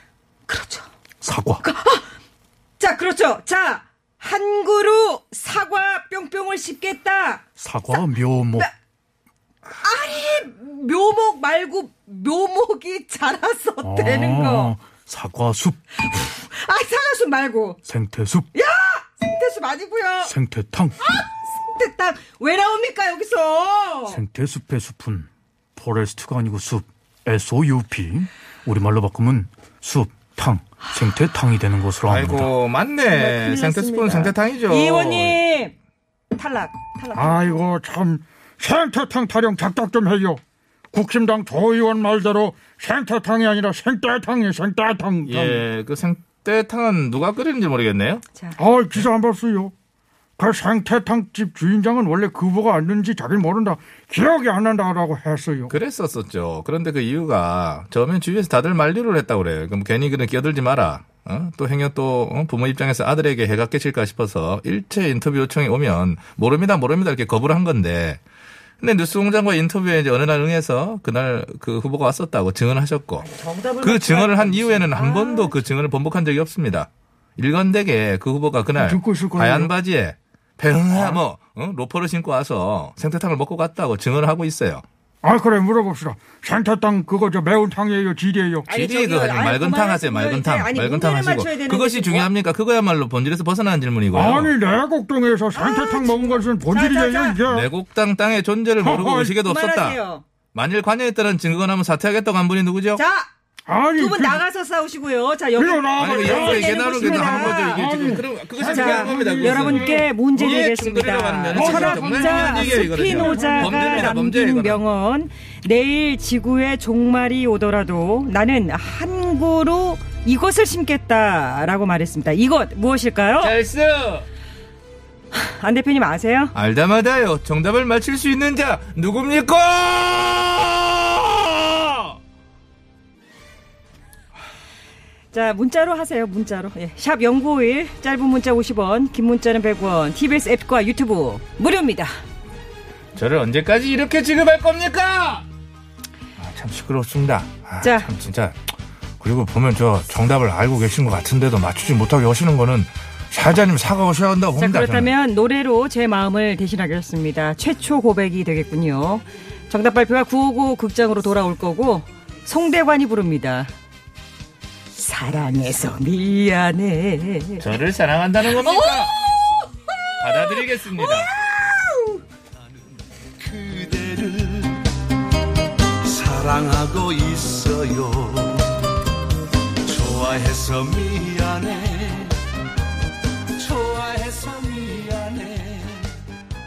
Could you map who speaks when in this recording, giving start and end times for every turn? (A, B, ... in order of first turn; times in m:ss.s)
0:00.5-0:00.9 A
0:01.2-0:01.6 B
0:01.6-0:02.1 A
0:02.8-0:07.4 A
0:07.6-0:08.7 B
0:09.8-0:14.7 A
0:13.8-0:15.8 B
0:16.0-0:17.8 A
0:17.8-0:18.5 B
0:18.5-0:20.3 A
0:20.2-0:21.0 B
0:21.0-0:24.2 A
0:24.1-0:32.5 B
0:32.0-0:35.4 C
0:33.0-0:35.7 A
0:36.3-0:37.6 A
0:37.1-0:40.4 D
0:40.9-0:45.6 D
0:45.2-0:48.2 C
0:48.3-0:48.6 A
0:48.6-0:49.7 D
0:50.4-0:55.7 D
0:55.7-1:08.2 C
1:08.8-1:13.2 C
1:13.2-1:15.6 A
1:13.8-1:24.8 C
1:18.8-1:19.7 D
1:25.2-1:28.7 D
1:28.7-1:32.3 A
1:28.7-1:34.5 C
1:34.1-1:37.7 D
1:35.5-1:37.4 A
1:37.4-1:40.0 C
1:38.8-1:39.3 D
1:39.4-1:40.2 A
1:40.5-1:43.0 C
1:43.0-1:43.3 A
1:43.7-1:44.4 D
1:44.0-1:48.1 A
1:45.6-1:50.0 D
1:46.0-1:54.8 C
1:48.6-2:03.5 A
1:51.5-1:54.1 D
2:03.4-2:04.3 C
2:05.3-2:06.5 A
2:06.5-2:12.2 C
2:15.3-2:22.1 A
2:23.1-2:25.4 C
2:26.4-2:28.6 C
2:27.8-2:28.1 A
2:29.2-2:35.1 C
2:34.6-2:43.7 A
2:44.9-2:47.6 A
2:47.6-2:49.1 C
2:50.2-2:51.3 C
2:51.5-2:52.2 A
2:53.4-2:54.9 E
2:56.0-2:58.8 E
2:59.8-3:02.4 E
3:03.6-3:06.1 E